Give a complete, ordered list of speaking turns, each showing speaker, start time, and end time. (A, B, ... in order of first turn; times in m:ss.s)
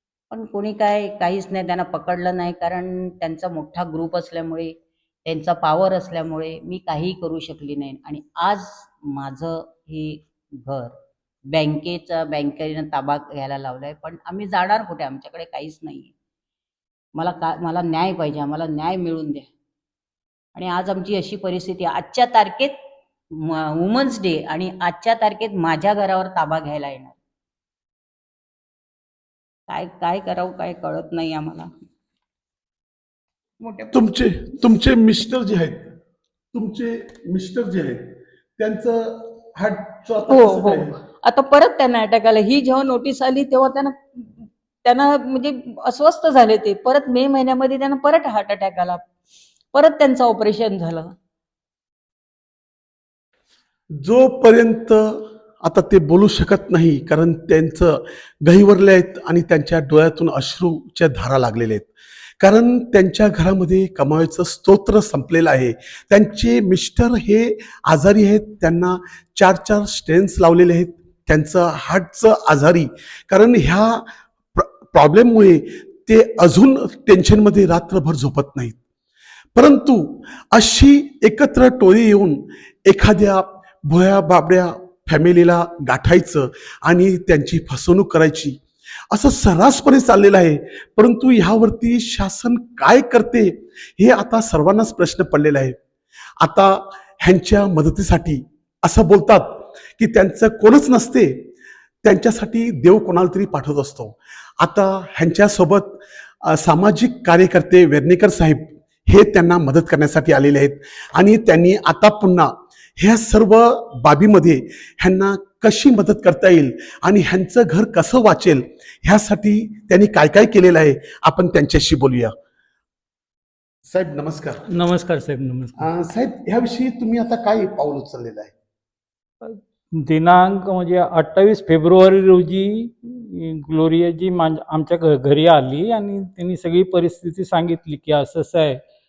0:00.3-0:10.9 A
0:11.5-0:16.1 A
0:17.1-0:19.5 A
0:20.5-0:22.7 A
0:23.3-0:27.2 A
0:29.7-0:31.7 A
0:33.6-0:34.0 A
0:33.9-0:35.9 B
0:36.5-0:41.0 B
0:40.3-0:49.0 A
0:49.7-0:51.1 A
0:54.0-1:18.8 B
1:19.5-1:28.6 B
1:29.1-1:35.8 B
1:36.4-1:41.5 B
1:42.0-2:02.3 B
2:03.8-2:04.6 B
2:04.7-2:05.9 C
2:05.8-2:08.5 B
2:09.4-2:18.8 C